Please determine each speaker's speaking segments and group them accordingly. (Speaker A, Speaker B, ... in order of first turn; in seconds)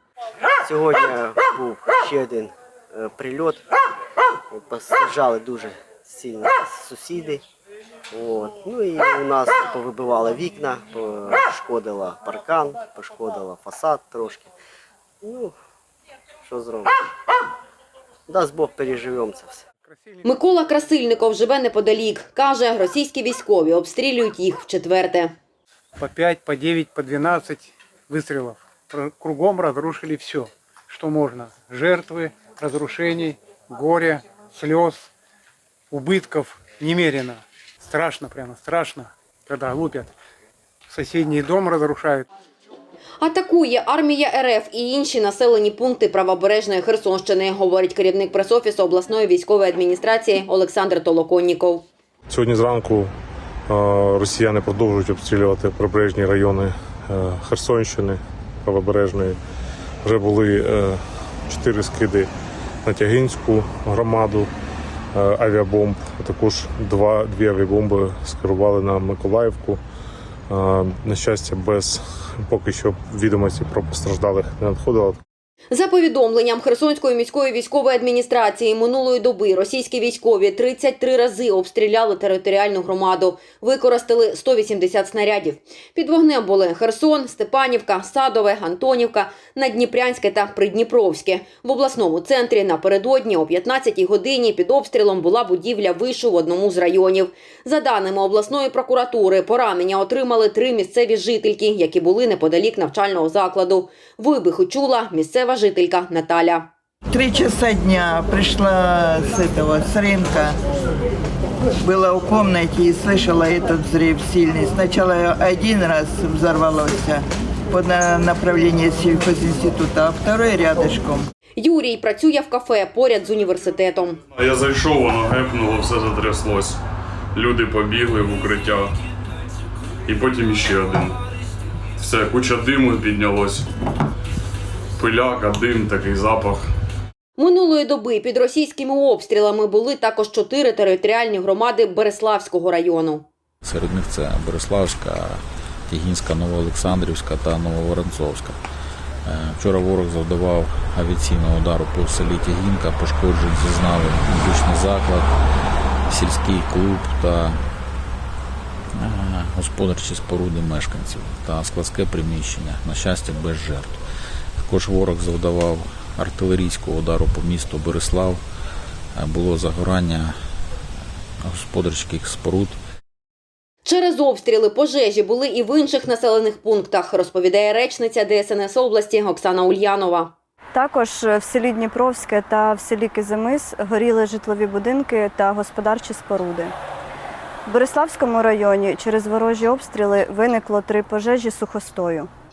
Speaker A: 0.6-3.6, 4.5-7.4, 8.1-14.5, 15.2-15.6, 16.4-17.0, 18.3-19.6
Speaker B: 19.9-20.3, 26.0-35.1, 35.9-40.1, 40.9-42.3
Speaker C: 20.2-25.4, 43.2-51.9, 75.7-106.7, 121.6-124.2, 137.4-143.3, 173.8-180.3
Speaker D: 52.3-53.1, 53.7-59.4, 60.0-62.3, 62.9-64.5, 65.2-69.8, 70.5-75.2
Speaker E: 107.1-110.6, 111.8-121.2
Speaker F: 124.3-126.8, 127.3-128.9, 130.1-131.2, 132.0-133.7, 135.0-136.7
Speaker G: 143.6-148.6, 149.2-155.3, 156.1-157.6, 159.0-164.0, 164.6-168.4, 169.2-170.3, 171.4-172.8
Speaker H: 180.8-186.7, 187.7-192.3